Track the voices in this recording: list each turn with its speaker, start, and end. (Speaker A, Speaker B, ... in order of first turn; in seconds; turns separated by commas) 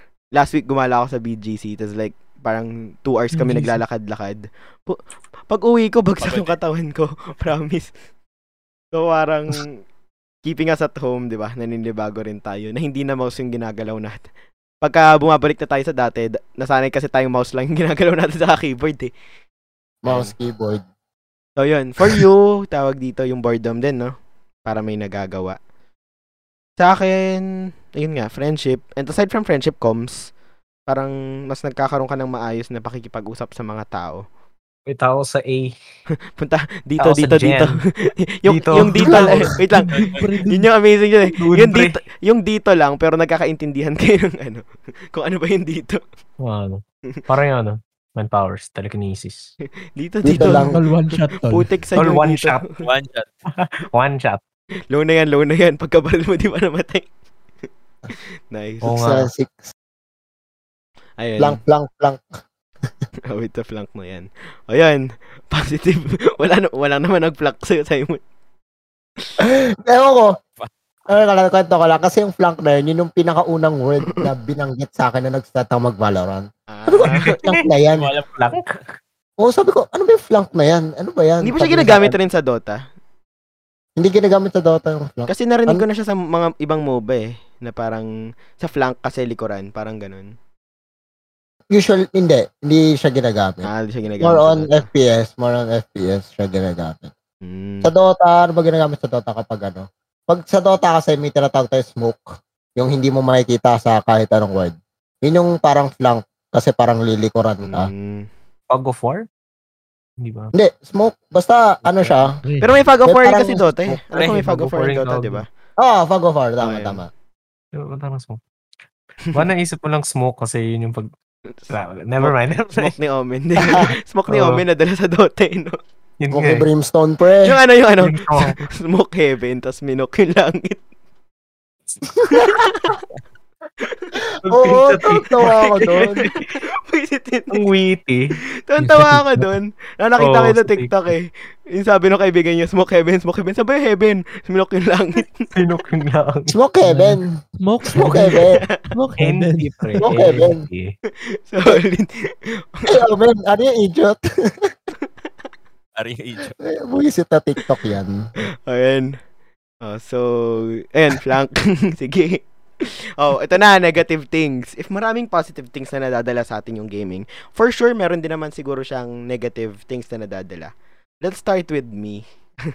Speaker A: 0.3-7.9, Speaker B: 3.3-3.8, Speaker C: 6.2-6.6, Speaker A: 8.9-9.8, Speaker A: 10.4-14.3, Speaker A: 14.8-19.1, Speaker D: 20.0-20.8, Speaker A: 20.1-20.3, Speaker A: 21.6-24.1, Speaker A: 24.6-25.6, Speaker A: 26.8-30.3, Speaker A: 30.9-34.2, Speaker E: 34.9-35.7, Speaker A: 36.4-46.0, Speaker E: 37.0-37.8, Speaker E: 38.5-39.5, Speaker B: 38.9-40.7, Speaker C: 39.9-40.4, Speaker E: 41.3-42.0, Speaker E: 46.4-49.5, Speaker A: 50.0-50.8, Speaker D: 50.2-50.7, Speaker B: 50.3-51.8, Speaker A: 51.4-52.8, Speaker E: 52.0-52.6, Speaker C: 52.8-53.3, Speaker E: 53.6-54.4, Speaker A: 54.9-57.1, Speaker A: 58.5-58.9, Speaker E: 58.8-59.3, Speaker D: 58.9-59.7, Speaker A: 61.2-61.6, Speaker D: 61.4-62.2, Speaker A: 63.3-68.2, Speaker D: 69.4-70.3, Speaker D: 71.1-78.1, Speaker A: 76.7-77.3, Speaker E: 77.1-77.6, Speaker C: 77.9-78.7, Speaker E: 78.3-78.7, Speaker D: 79.4-82.2, Speaker A: 81.4-82.8, Speaker D: 84.0-85.8, Speaker A: 85.3-90.3, Speaker D: 91.7-93.7, Speaker A: 93.6-94.9, Speaker D: 94.2-97.1, Speaker A: 97.4-97.9, Speaker D: 97.8-107.9, Speaker A: 107.6-108.3, Speaker E: 108.7-109.2, Speaker E: 110.2-110.5, Speaker D: 110.5-112.4, Speaker B: 112.4-112.8, Speaker A: 112.6-115.5, Speaker D: 113.0-114.0, Speaker E: 114.1-115.4, Speaker D: 115.8-117.1, Speaker A: 116.6-117.0, Speaker E: 117.7-118.4, Speaker E: 119.3-121.1, Speaker A: 121.6-125.8, Speaker E: 121.7-122.9, Speaker E: 124.3-124.6, Speaker E: 126.2-126.6, Speaker D: 126.3-127.5, Speaker A: 127.4-130.8, Speaker E: 128.0-128.6, Speaker A: 132.3-133.0, Speaker A: 133.8-134.1, Speaker D: 134.5-136.2, Speaker E: 134.5-136.0, Speaker A: 135.4-137.6, Speaker E: 137.5-138.3, Speaker A: 138.6-145.5, Speaker B: 138.8-139.5, Speaker E: 140.2-140.9, Speaker E: 145.5-146.5, Speaker D: 146.5-147.3, Speaker B: 146.8-150.5, Speaker D: 147.9-148.6, Speaker A: 148.3-148.9, Speaker E: 149.2-150.9, Speaker D: 150.0-150.6, Speaker A: 151.4-153.0, Speaker D: 152.9-154.7, Speaker C: 155.9-156.6, Speaker D: 156.6-158.3, Speaker A: 158.7-159.2, Speaker A: 159.8-170.7, Speaker A: 171.2-172.2